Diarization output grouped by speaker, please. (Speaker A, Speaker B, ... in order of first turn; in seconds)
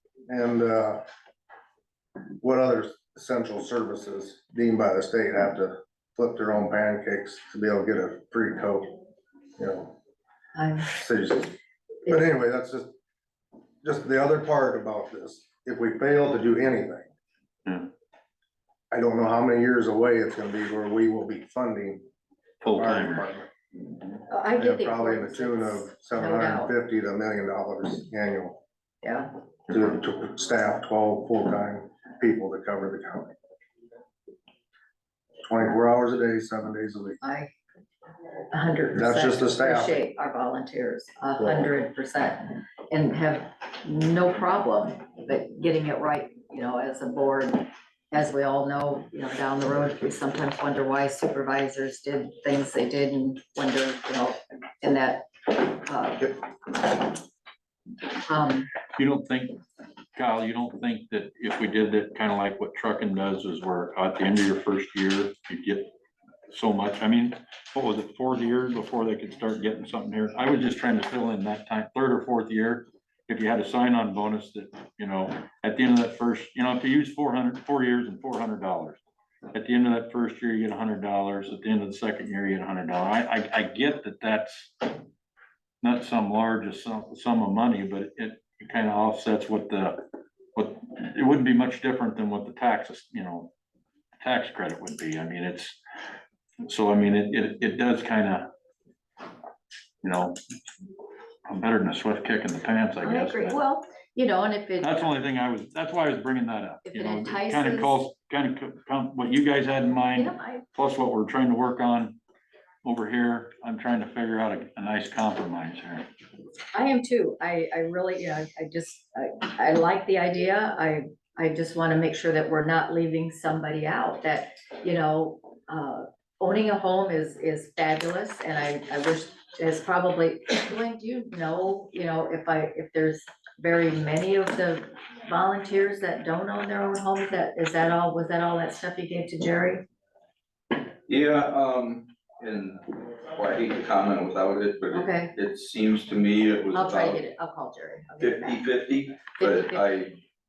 Speaker A: 0.3-1.0, 2.4-9.0, 9.6-9.9, 10.9-11.6, 12.1-12.9, 13.8-17.1, 18.9-22.0, 22.7-23.5, 24.6-28.6, 29.7-33.3, 35.4-37.2, 38.9-40.0, 41.4-41.7
Speaker B: 10.6-10.9, 24.3-26.7, 29.0-29.4, 37.2-37.5, 38.5-57.2, 58.2-58.7, 103.0-105.1, 106.8-108.0, 110.1-110.7, 116.7-139.8, 144.9-145.3, 146.7-148.6, 149.4-149.8
Speaker C: 22.6-23.3, 58.9-59.6, 60.1-65.9, 66.5-79.0, 79.5-85.0, 85.8-90.0, 90.5-93.5, 94.2-95.8, 96.7-98.5, 100.0-100.4, 101.5-103.6, 104.8-112.2, 112.8-116.1
Speaker D: 141.1-147.2, 148.2-150.2